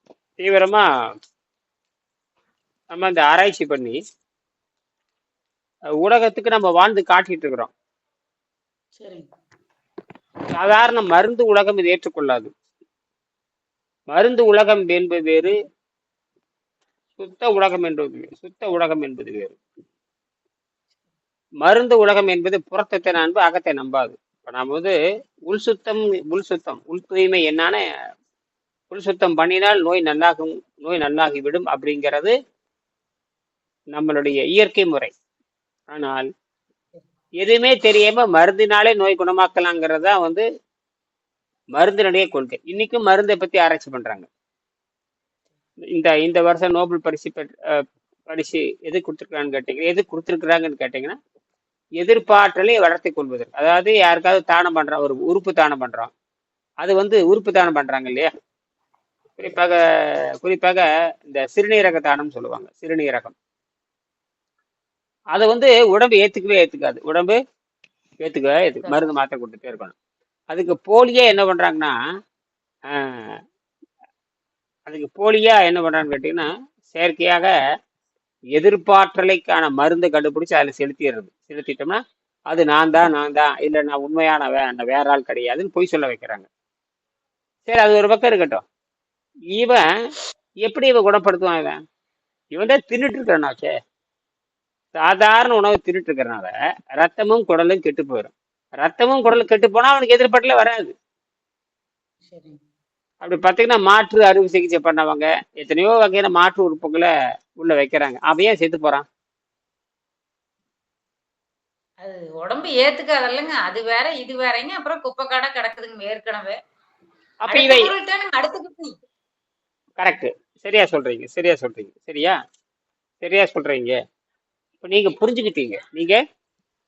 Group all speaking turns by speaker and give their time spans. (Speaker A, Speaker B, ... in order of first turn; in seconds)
Speaker A: 0.4-0.8, 2.9-4.0, 6.0-7.7, 10.5-12.5, 14.1-15.5, 17.2-19.6, 21.6-24.9, 25.5-27.8, 28.9-32.3, 33.9-35.1, 35.9-36.3, 37.4-40.5, 41.8-44.3, 45.9-47.5, 48.3-51.2, 52.0-56.1, 56.8-58.3, 59.4-59.7, 60.4-63.4, 65.3-67.4, 68.2-69.9, 70.5-72.0, 72.9-73.3, 74.9-77.5, 78.5-82.0, 82.5-86.5, 87.7-88.6, 89.5-89.9, 90.6-91.8, 92.5-93.7, 95.0-100.9, 103.2-109.0, 117.4-117.9, 120.0-122.3, 123.2-124.0, 124.8-126.2
Speaker B: 9.0-9.3, 102.3-102.6, 112.0-116.5, 117.5-119.0